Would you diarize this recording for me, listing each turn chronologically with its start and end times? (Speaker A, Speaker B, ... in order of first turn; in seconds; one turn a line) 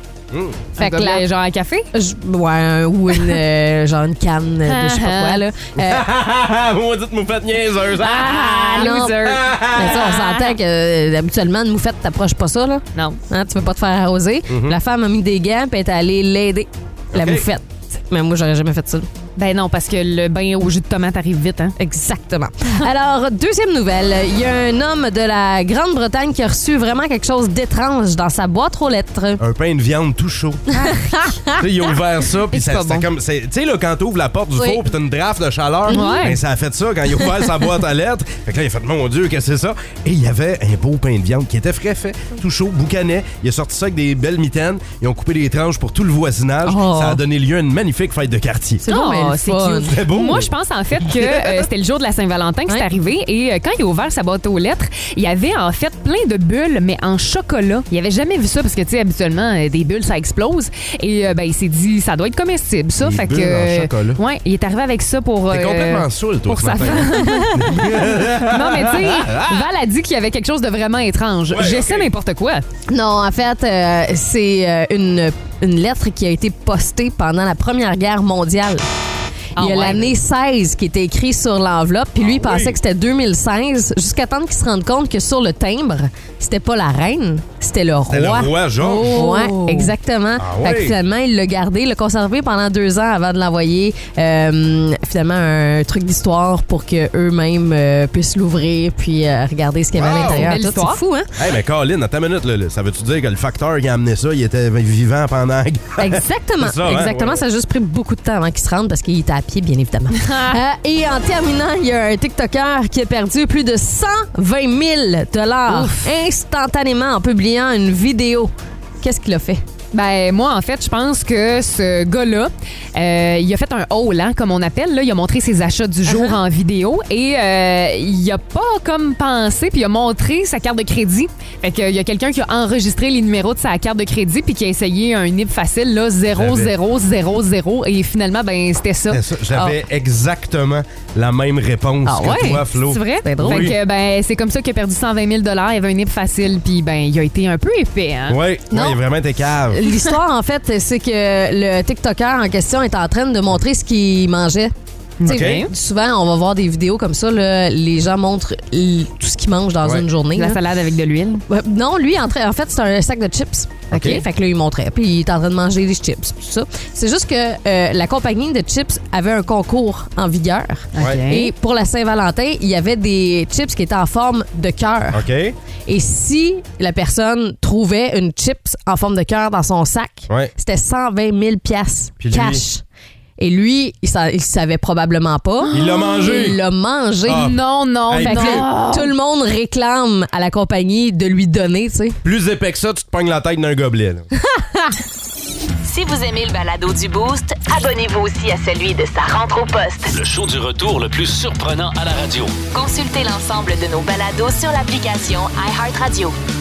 Speaker A: 0.3-0.7
Speaker B: 0.8-1.2
Speaker C: 0.8-1.9
Speaker B: 1.9-6.0
Speaker C: 4.7-5.4
Speaker A: 5.8-8.4
Speaker C: 8.0-10.5
Speaker B: 8.4-19.1
Speaker A: 9.2-9.9
Speaker A: 14.5-14.7
Speaker A: 17.1-17.4
Speaker C: 19.4-21.8
Speaker B: 21.8-29.4
Speaker A: 29.4-30.6
Speaker C: 30.7-31.0
Speaker B: 30.8-31.6
Speaker A: 31.6-48.8
Speaker C: 32.5-33.1
Speaker B: 34.5-34.8
Speaker B: 35.9-36.3
Speaker C: 35.9-36.4
Speaker B: 37.1-37.7
Speaker B: 46.6-47.2
Speaker B: 48.8-50.4
Speaker C: 48.9-72.6
Speaker A: 49.9-50.5
Speaker A: 63.0-64.2
Speaker A: 65.5-69.7
Speaker B: 67.1-68.0
Speaker A: 71.5-72.1
Speaker B: 72.9-78.9
Speaker C: 79.5-80.1
Speaker B: 79.6-101.3
Speaker A: 82.2-82.8
Speaker A: 88.1-89.2
Speaker C: 89.1-89.9
Speaker A: 90.4-91.0
Speaker A: 99.9-100.5
Speaker C: 100.0-101.0
Speaker A: 101.4-107.4
Speaker B: 106.0-119.6
Speaker C: 110.2-110.5
Speaker C: 115.7-116.1
Speaker C: 119.9-139.7
Speaker B: 126.0-126.4
Speaker A: 136.3-136.7
Speaker A: 139.1-143.8
Speaker B: 142.0-142.7
Speaker C: 142.7-148.4
Speaker B: 143.2-143.8
Speaker A: 148.3-149.8
Speaker B: 148.7-149.0
Speaker B: 149.6-154.7
Speaker C: 155.2-155.7
Speaker B: 155.2-160.6
Speaker A: 155.2-155.6
Speaker C: 160.3-161.4
Speaker B: 161.5-175.2
Speaker C: 163.9-164.2
Speaker A: 163.9-164.2
Speaker C: 170.9-171.5
Speaker A: 175.1-175.6
Speaker B: 175.8-182.8
Speaker A: 182.2-182.6
Speaker B: 183.4-187.5
Speaker C: 185.7-186.5
Speaker A: 185.7-186.6
Speaker A: 187.3-187.6
Speaker C: 187.3-189.1
Speaker A: 188.1-188.7
Speaker B: 188.2-192.2
Speaker A: 192.2-194.2
Speaker B: 194.4-194.9
Speaker D: 195.8-200.2
Speaker E: 200.1-202.6
Speaker D: 202.7-206.3